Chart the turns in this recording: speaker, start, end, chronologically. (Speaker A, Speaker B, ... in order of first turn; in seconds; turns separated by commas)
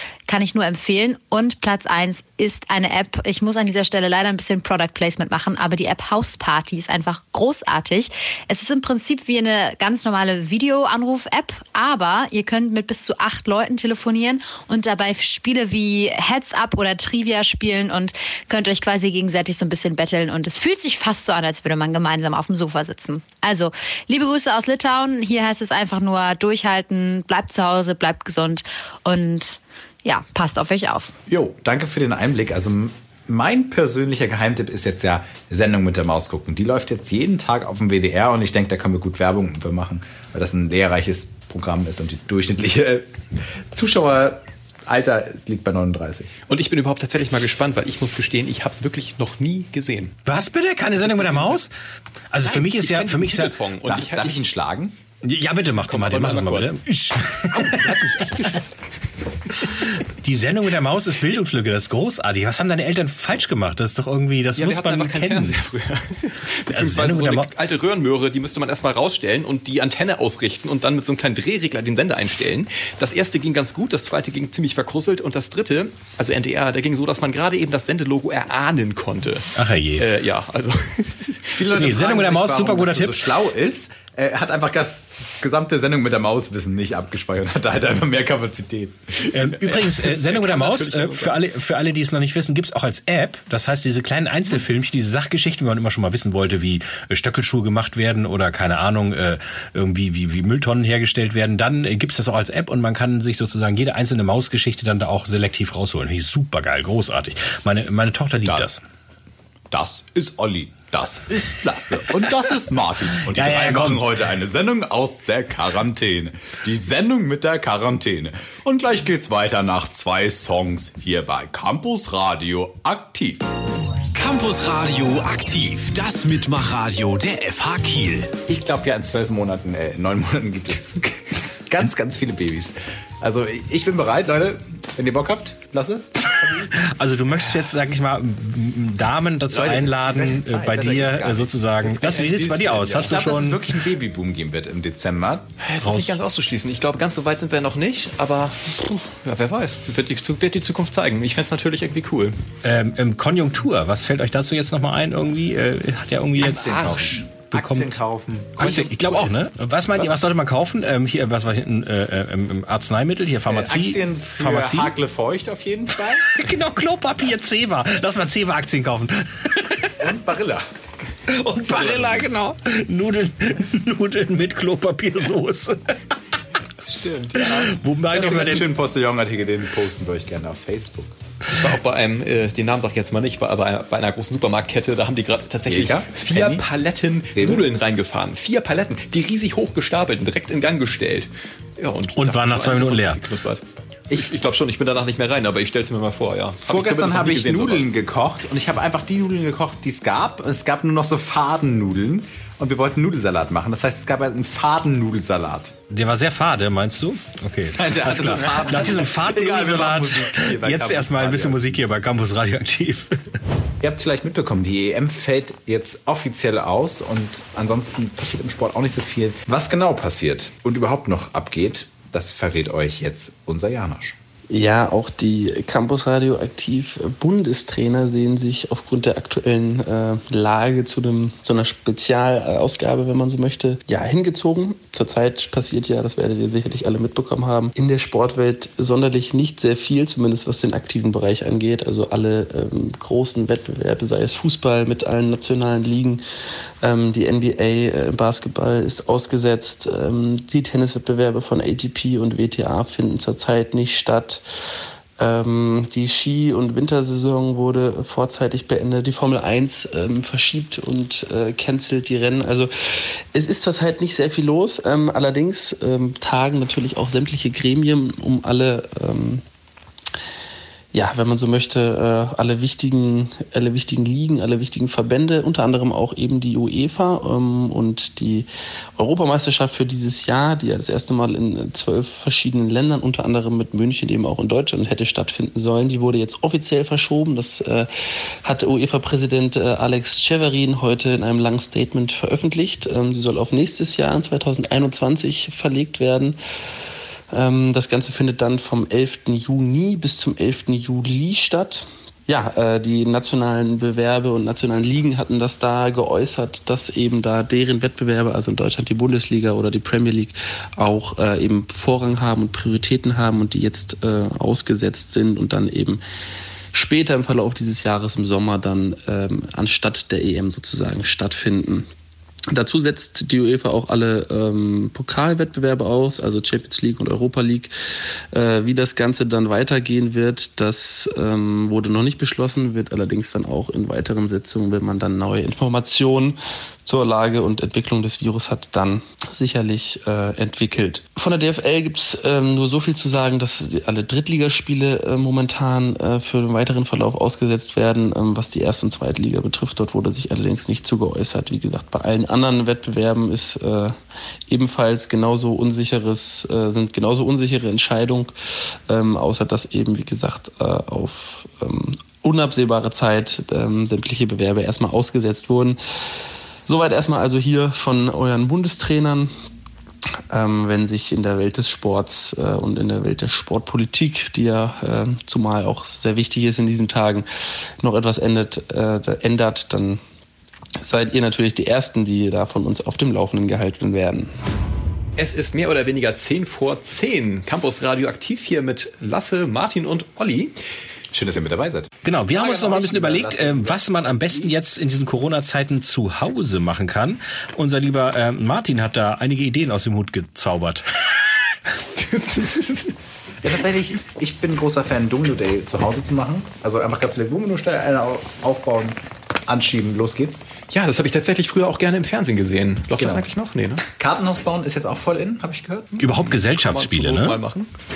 Speaker A: 0.2-31.1, Speaker B: 31.3-46.3, Speaker C: 46.5-50.2, Speaker D: 50.2-51.7, Speaker C: 51.0-51.6, Speaker D: 52.3-53.5, Speaker C: 52.4-54.4, Speaker B: 53.9-55.0, Speaker D: 55.2-57.9, Speaker C: 55.9-56.8, Speaker C: 57.5-58.7, Speaker D: 60.2-65.5, Speaker C: 64.5-81.5, Speaker D: 66.7-67.5, Speaker D: 79.5-80.0, Speaker B: 81.5-89.1, Speaker D: 81.7-83.2, Speaker D: 89.3-108.8, Speaker C: 89.5-91.4, Speaker B: 108.4-108.7, Speaker B: 109.7-123.4, Speaker D: 113.3-114.0, Speaker E: 124.1-128.3, Speaker B: 128.5-136.9, Speaker D: 136.8-143.6, Speaker B: 139.5-145.4, Speaker C: 142.9-143.2, Speaker C: 145.6-152.4, Speaker D: 145.8-146.2, Speaker D: 152.6-158.0, Speaker B: 156.4-160.1, Speaker C: 156.5-157.0, Speaker D: 158.6-164.9, Speaker B: 163.4-166.4, Speaker D: 166.3-169.9, Speaker B: 170.0-170.6, Speaker D: 171.3-175.8, Speaker B: 176.8-181.2, Speaker D: 177.4-178.7, Speaker C: 181.5-197.9, Speaker B: 185.7-186.6, Speaker B: 187.3-187.7, Speaker D: 192.1-193.2, Speaker B: 196.6-205.8, Speaker D: 205.9-213.1, Speaker B: 207.8-211.9, Speaker B: 213.8-224.2, Speaker F: 224.5-246.2, Speaker F: 246.8-254.4, Speaker F: 255.2-262.7, Speaker F: 263.3-269.4, Speaker F: 270.9-287.9, Speaker F: 288.4-296.4, Speaker F: 297.3-316.0, Speaker F: 316.7-321.9, Speaker F: 322.5-327.7, Speaker F: 328.3-354.0, Speaker F: 354.5-358.3, Speaker F: 358.9-365.8, Speaker F: 366.6-369.3, Speaker F: 370.3-377.2, Speaker F: 377.8-380.0, Speaker F: 380.8-384.3, Speaker C: 385.2-390.5, Speaker B: 391.1-394.5, Speaker D: 392.0-401.3, Speaker C: 402.0-402.9, Speaker B: 403.4-410.5, Speaker C: 410.7-413.8, Speaker B: 413.0-413.2, Speaker B: 414.0-415.9, Speaker D: 416.0-417.4, Speaker C: 416.0-417.7